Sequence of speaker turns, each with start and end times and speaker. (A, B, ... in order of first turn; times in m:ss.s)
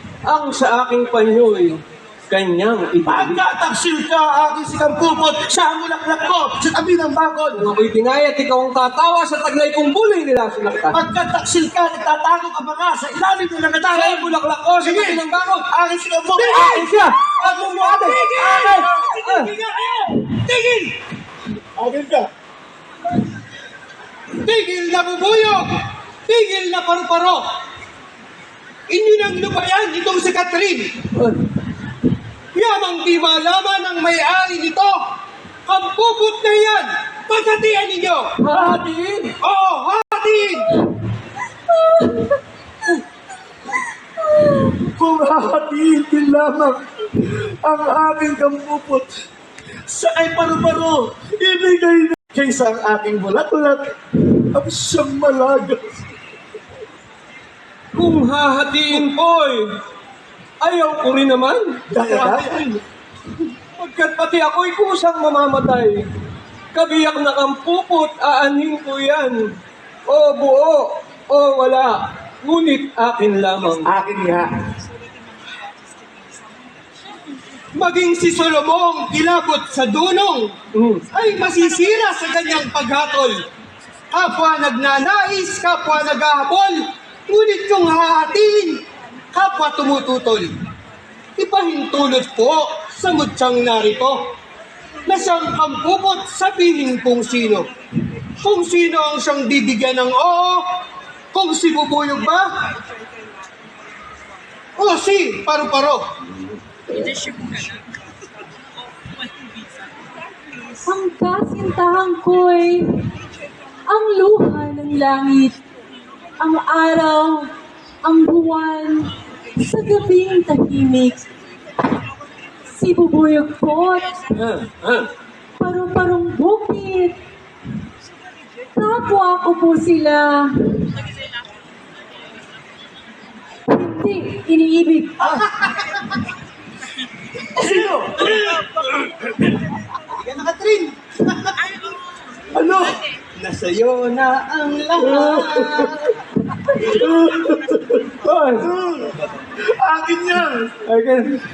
0:00.2-0:03.4 A
0:03.1-0:07.7 B
0:07.6-0:11.0 A
0:10.9-0:20.3 B
0:13.9-0:15.7 A
0:16.4-0:19.5 A
0:16.5-0:20.9 C
0:21.8-0:22.3 B
0:24.4-0:27.4 C
0:28.9-0:30.9 C
0:31.1-0:31.4 A
0:32.6-0:35.0 C
0:35.7-0:38.3 C
0:38.4-0:39.4 A
0:39.4-0:40.8 C
0:44.6-0:49.2 B
0:49.9-0:55.8 B
0:57.9-0:59.7 A
1:00.6-1:01.8 A
1:01.9-1:02.8 B
1:02.0-1:02.5 C
1:03.8-1:06.1 A
1:06.7-1:09.4 A
1:10.1-1:13.9 A
1:14.0-1:14.3 C
1:14.0-1:14.5 B
1:17.7-1:20.6 C
1:20.7-1:21.0 A
1:21.1-1:23.4 C
1:24.1-1:28.8 C
1:29.3-1:30.5 C
1:31.4-1:34.2 C
1:35.1-1:37.7 C
1:38.4-1:40.7 C
1:41.3-1:42.5 C
1:44.8-1:46.0 C
1:50.8-1:53.1 D
1:53.9-1:55.6 D
1:56.4-1:57.5 D
1:58.0-2:01.3 D
2:02.7-2:04.2 D
2:04.3-2:05.1 A
2:05.6-2:07.2 D
2:08.8-2:11.0 D
2:13.7-2:15.3 D
2:15.3-2:16.2 C
2:17.5-2:18.6 C
2:17.6-2:18.4 B
2:20.1-2:21.8 C
2:22.5-2:23.0 B
2:23.4-2:26.0 C
2:25.0-2:26.1 B
2:26.7-2:31.4 B
2:28.3-2:28.6 A
2:29.7-2:30.5 C